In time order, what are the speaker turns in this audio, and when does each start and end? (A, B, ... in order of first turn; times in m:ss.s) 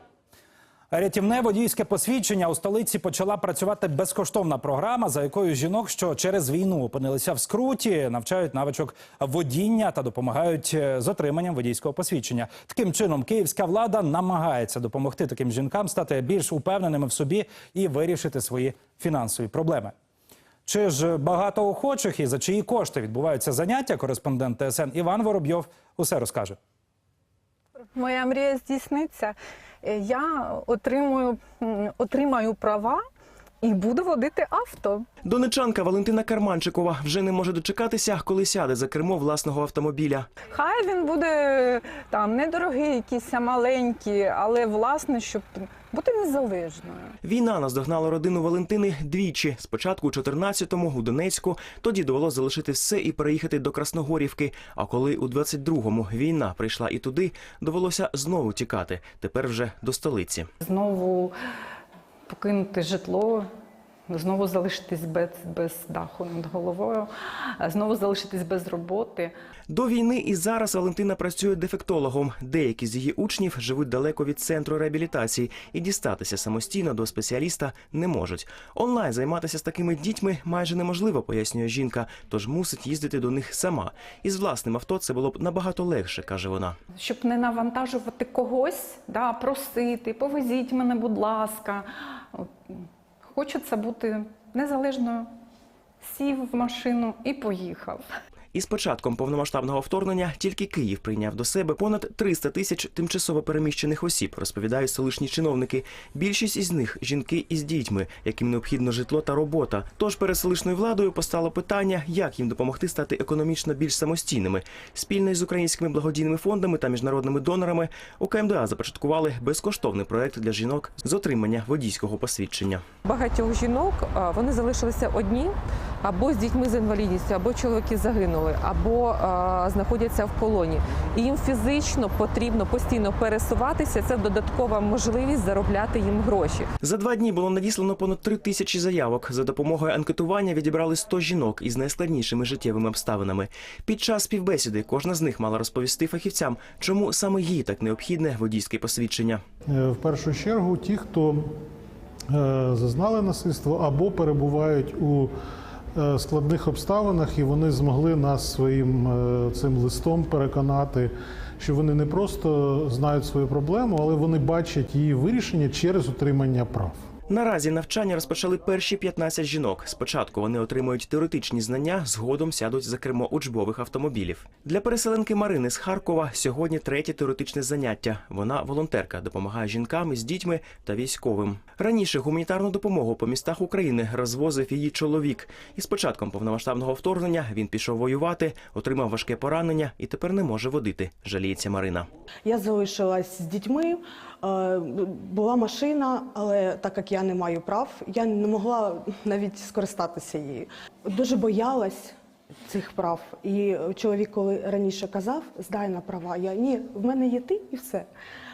0:00.9-0:19.9 A
0:20.6-0:26.6 A
0:27.9-0:33.0 B
0:33.6-0:35.0 B
0:35.2-0:40.3 C
0:40.5-0:47.1 B
0:47.2-1:00.5 C
1:00.6-1:01.3 B
1:02.3-1:03.5 B
1:04.1-1:07.1 B
1:07.6-1:09.3 B
1:09.7-1:26.8 C
1:27.0-1:32.5 B
1:33.3-1:35.3 B
1:36.0-1:38.0 B
1:38.5-2:02.8 C
2:03.0-2:16.7 D
2:16.8-2:29.4 C
2:29.7-2:31.5 E
2:32.3-2:35.3 E
2:36.0-2:47.0 E
2:47.3-3:12.1 C
3:12.4-3:22.1 F
3:22.7-3:28.1 F